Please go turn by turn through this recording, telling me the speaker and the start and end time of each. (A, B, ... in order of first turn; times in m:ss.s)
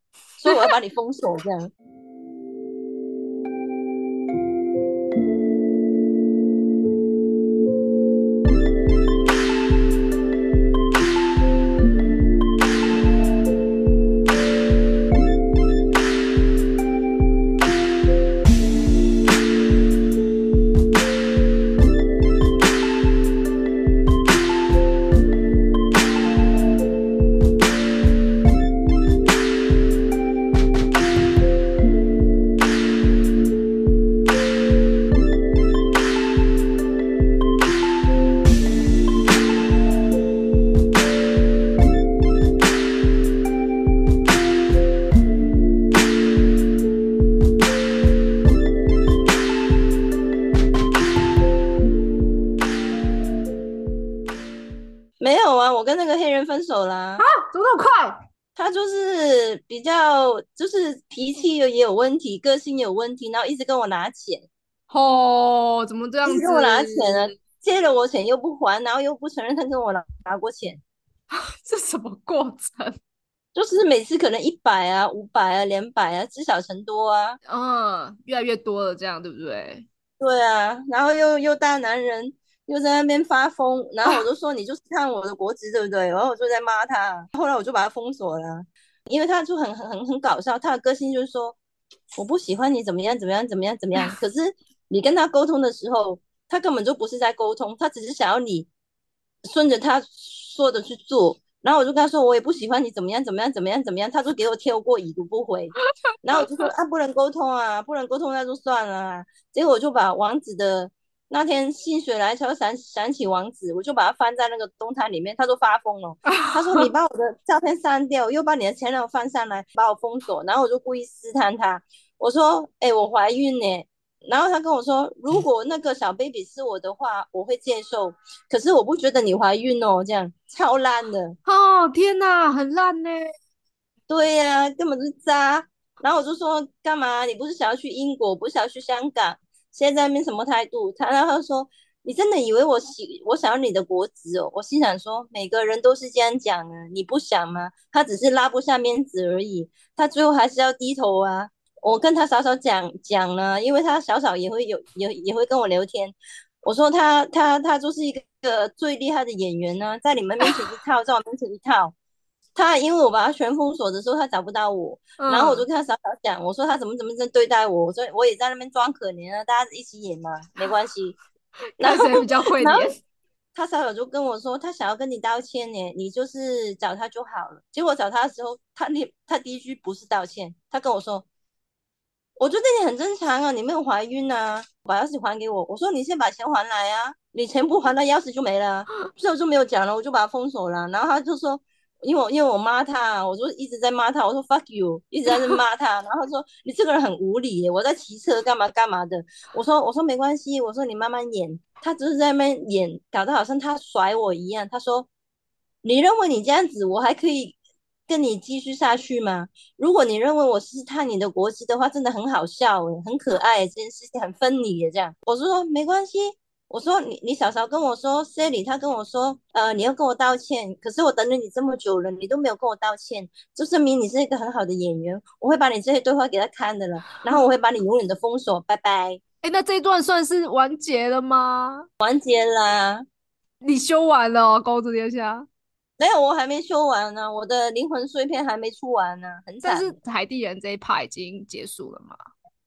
0:00.4-0:01.7 A
0:55.2-0:57.2 A
0:57.2-0:58.2 B
0:58.6-1:04.5 A
1:04.9-1:07.2 B
1:06.2-1:10.8 A
1:11.3-1:13.0 B
1:13.6-1:17.4 A
1:17.5-1:19.9 B
1:20.2-1:31.6 A
1:32.2-1:38.7 A
1:39.5-2:11.4 A
1:46.4-1:46.7 B
1:56.3-1:56.9 B
2:11.5-2:13.2 B
2:14.1-2:42.0 A
2:42.6-2:51.2 A
2:45.2-2:45.6 B
2:51.8-2:53.0 B
2:51.8-2:52.9 A
2:53.5-3:01.3 A
3:02.4-3:25.1 A
3:15.3-3:15.6 B
3:25.8-3:27.6 A
3:28.1-3:49.2 A
3:49.4-3:51.9 B
3:52.0-3:53.0 A
3:53.6-3:55.5 B
3:56.0-3:59.9 A
3:59.6-4:02.2 B